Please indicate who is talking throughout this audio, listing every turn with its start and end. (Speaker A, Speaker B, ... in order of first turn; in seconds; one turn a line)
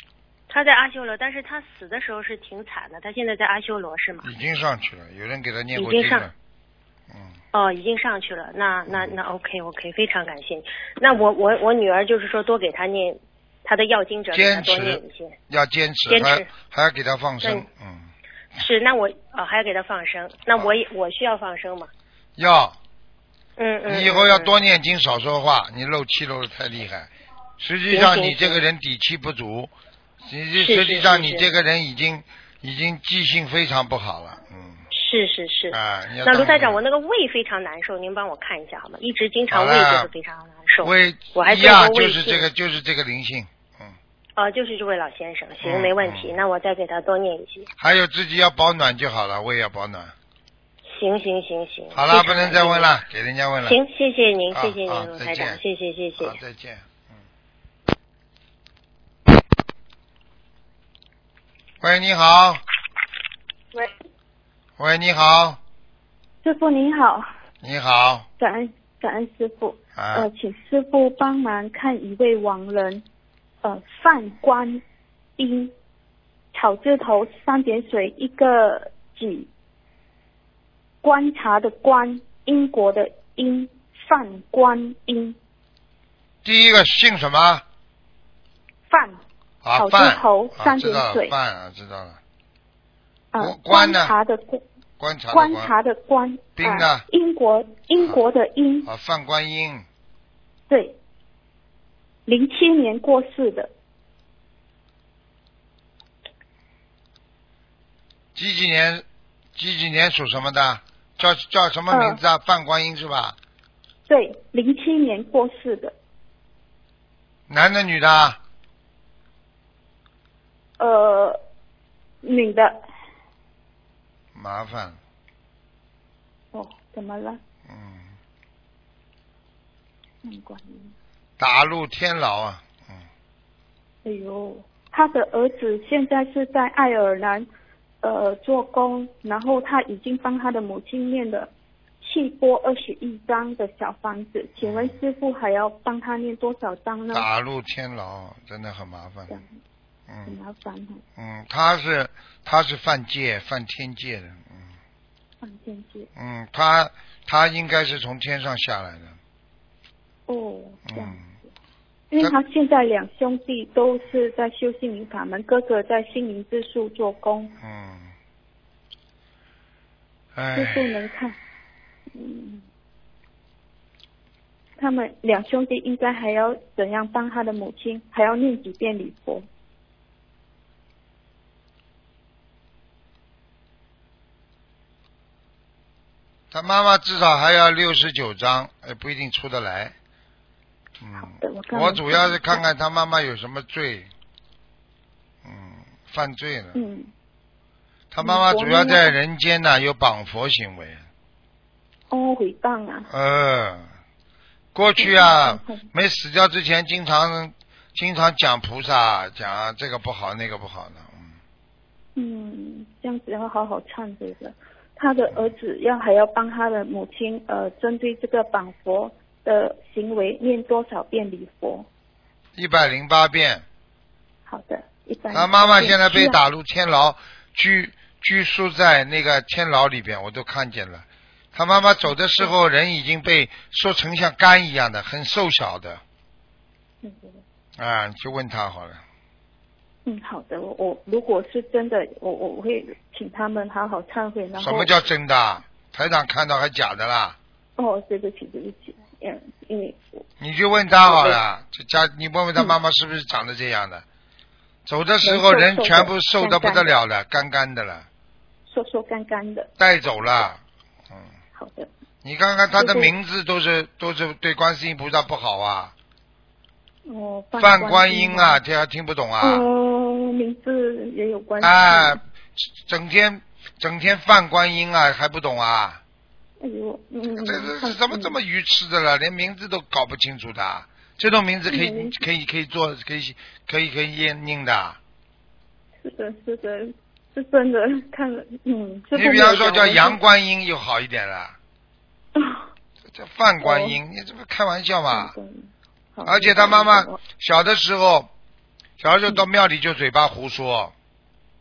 Speaker A: 0.5-4.3
Speaker B: 4.2-6.3
Speaker A: 5.8-6.3
Speaker B: 7.1-7.4
Speaker A: 7.5-15.4
Speaker B: 8.9-9.1
Speaker B: 14.3-18.1
Speaker A: 16.1-16.5
Speaker A: 18.6-21.9
Speaker B: 22.4-22.8
Speaker A: 23.6-24.5
Speaker B: 23.9-29.7
Speaker A: 27.9-28.6
Speaker B: 30.2-34.8
Speaker A: 30.6-31.5
Speaker A: 34.9-42.5
Speaker B: 35.7-36.8
Speaker B: 39.5-40.1
Speaker B: 40.8-44.0
Speaker A: 44.4-47.7
Speaker B: 45.6-46.4
Speaker B: 47.8-50.1
Speaker A: 50.9-53.0
Speaker B: 51.9-53.8
Speaker A: 53.7-56.4
Speaker B: 54.5-55.6
Speaker B: 56.2-57.1
Speaker B: 61.8-62.6
Speaker B: 64.8-65.6
Speaker C: 66.4-67.2
Speaker B: 67.6-68.3
Speaker C: 68.4-73.0
Speaker B: 70.0-70.3
Speaker C: 73.6-74.8
Speaker C: 75.4-75.7
Speaker C: 76.5-79.5
Speaker C: 81.0-85.4
Speaker B: 86.4-87.6
Speaker C: 88.9-89.2
Speaker B: 89.6-92.2
Speaker C: 89.8-91.3
Speaker C: 93.3-94.6
Speaker B: 93.4-94.2
Speaker B: 95.0-95.7
Speaker C: 95.3-98.9
Speaker B: 96.6-97.0
Speaker B: 98.9-99.8
Speaker C: 100.7-101.0
Speaker C: 102.3-103.7
Speaker B: 108.3-109.0
Speaker B: 109.6-113.4
Speaker C: 111.9-112.2
Speaker C: 114.1-116.0
Speaker B: 117.5-118.4
Speaker C: 120.8-121.4
Speaker C: 122.2-122.8
Speaker B: 124.3-125.0
Speaker C: 126.5-127.4
Speaker B: 127.7-128.1
Speaker C: 130.2-130.9
Speaker B: 131.4-133.0
Speaker C: 134.1-137.5
Speaker C: 138.0-141.5
Speaker C: 142.0-147.3
Speaker B: 144.6-144.9
Speaker B: 147.1-149.3
Speaker B: 150.1-150.3
Speaker C: 150.3-151.0
Speaker B: 151.2-154.7
Speaker C: 155.4-156.1
Speaker B: 156.2-159.2
Speaker C: 160.3-161.3
Speaker B: 160.9-161.3
Speaker C: 162.1-167.5
Speaker B: 167.6-168.1
Speaker B: 170.3-170.9
Speaker C: 170.6-171.4
Speaker C: 172.1-172.7
Speaker C: 174.8-179.5
Speaker B: 186.5-189.9
Speaker B: 191.0-194.1
Speaker C: 191.2-192.6
Speaker B: 195.4-196.8
Speaker C: 196.7-197.1
Speaker B: 198.1-201.0
Speaker C: 198.2-199.2
Speaker C: 202.1-203.1
Speaker B: 203.1-203.9
Speaker B: 204.7-211.3
Speaker C: 204.9-205.9
Speaker C: 212.2-221.9
Speaker B: 222.6-223.6
Speaker C: 224.5-226.4
Speaker B: 225.3-236.0
Speaker C: 237.0-237.4
Speaker B: 237.8-239.0
Speaker C: 240.1-244.9
Speaker B: 244.6-247.4
Speaker C: 247.8-250.2
Speaker B: 250.4-254.0
Speaker C: 251.0-251.4
Speaker B: 254.9-258.1
Speaker C: 255.2-256.9
Speaker C: 258.7-259.7
Speaker B: 259.8-260.6
Speaker C: 261.5-261.9
Speaker B: 262.2-265.9
Speaker C: 262.8-263.1
Speaker C: 267.1-268.6
Speaker B: 267.6-269.6
Speaker C: 269.4-272.2
Speaker B: 271.6-276.0
Speaker C: 276.6-278.4
Speaker B: 277.4-285.0
Speaker C: 281.7-282.2
Speaker C: 286.0-290.2
Speaker B: 289.1-291.6
Speaker C: 292.4-292.7
Speaker B: 293.1-295.3
Speaker C: 293.6-294.0
Speaker C: 295.1-297.2
Speaker B: 296.3-298.3
Speaker B: 299.0-300.9